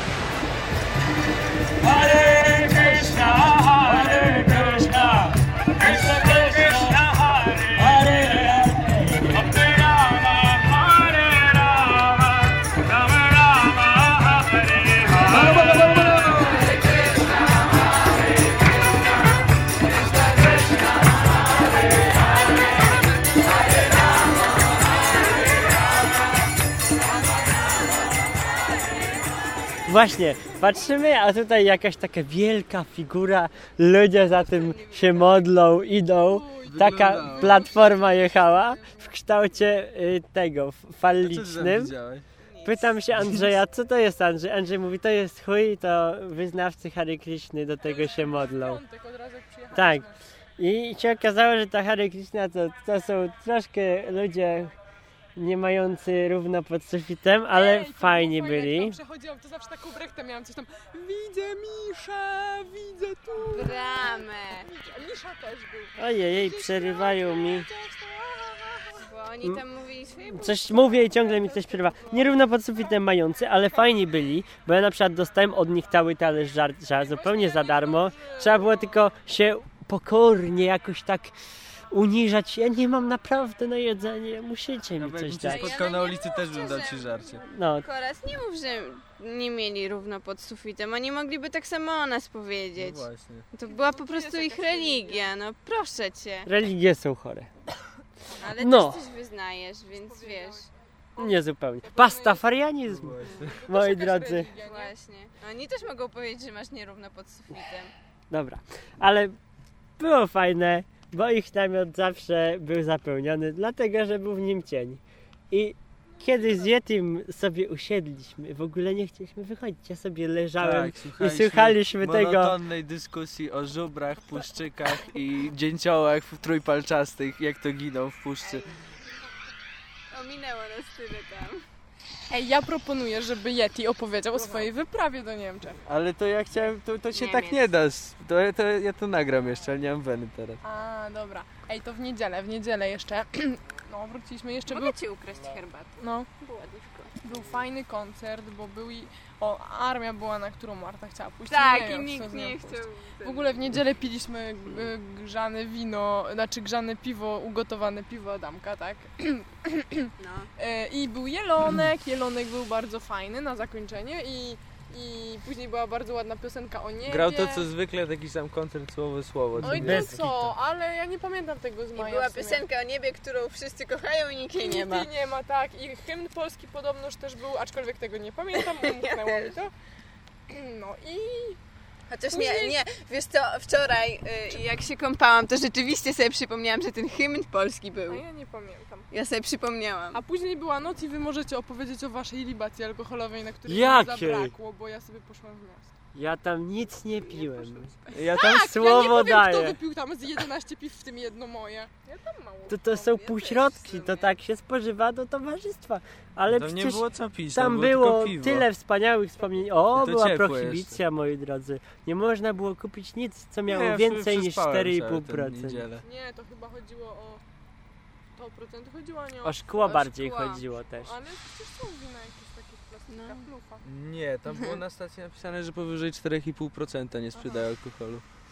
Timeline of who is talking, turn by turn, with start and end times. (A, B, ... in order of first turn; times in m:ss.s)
0:01.8-0:12.3 A
0:13.0-0:16.2 A
0:29.9-0:41.9 A
0:34.3-0:35.5 B
0:36.2-0:39.1 C
0:36.7-0:37.7 D
0:41.2-0:42.2 D
0:42.4-0:43.0 B
0:42.6-0:48.8 A
0:43.2-0:43.5 D
0:47.8-0:50.2 C
0:49.7-0:54.7 A
0:55.4-0:59.0 A
0:57.5-1:09.1 C
1:03.4-1:04.7 B
1:06.0-1:07.7 A
1:09.0-1:10.9 B
1:10.3-1:21.4 A
1:11.0-1:12.4 C
1:17.0-1:19.0 C
1:21.9-1:25.8 A
1:25.0-1:27.4 D
1:25.4-1:36.5 B
1:27.4-1:27.9 A
1:32.8-1:33.5 D
1:33.7-1:35.3 C
1:36.5-1:37.5 A
1:38.4-1:40.7 B
1:38.6-1:39.0 A
1:39.9-1:42.4 C
1:41.2-1:44.5 A
1:42.9-1:43.6 D
1:43.4-1:44.9 C
1:44.6-1:47.9 B
1:48.3-1:49.4 A
1:50.0-2:02.6 A
1:56.2-1:56.5 C
2:00.6-2:08.6 D
2:08.4-2:08.8 B
2:10.1-2:11.6 B
2:12.3-2:15.8 C
2:14.4-2:14.7 B
2:15.9-2:20.6 D
2:17.1-2:17.7 B
2:20.6-2:25.0 C
2:24.7-2:27.2 B
2:26.0-2:26.3 C
2:27.2-2:47.7 C
2:31.5-2:33.7 B
2:40.2-2:40.5 B
2:47.1-2:50.2 D
2:49.6-2:50.5 A
2:49.6-2:52.6 C
2:52.0-2:55.1 B
2:54.6-2:59.7 C
2:58.7-2:59.6 B
3:00.5-3:01.6 C
3:02.1-3:08.2 B
3:02.3-3:02.8 C
3:08.1-3:09.1 C
3:09.1-3:10.2 B
3:10.1-3:15.9 C
3:13.7-3:14.5 A
3:16.2-3:19.8 A
3:18.1-3:18.8 D
3:18.2-3:22.8 C
3:22.7-3:35.9 A
3:22.9-3:24.3 B
3:26.5-3:28.7 D
3:29.9-3:31.0 D
3:33.7-3:36.0 D
3:36.0-3:37.4 C
3:38.4-3:40.1 C
3:39.4-3:41.1 A
3:39.8-3:40.6 B
3:41.0-3:43.8 C
3:43.1-3:43.4 B
3:43.8-3:48.2 D
3:47.4-3:47.6 C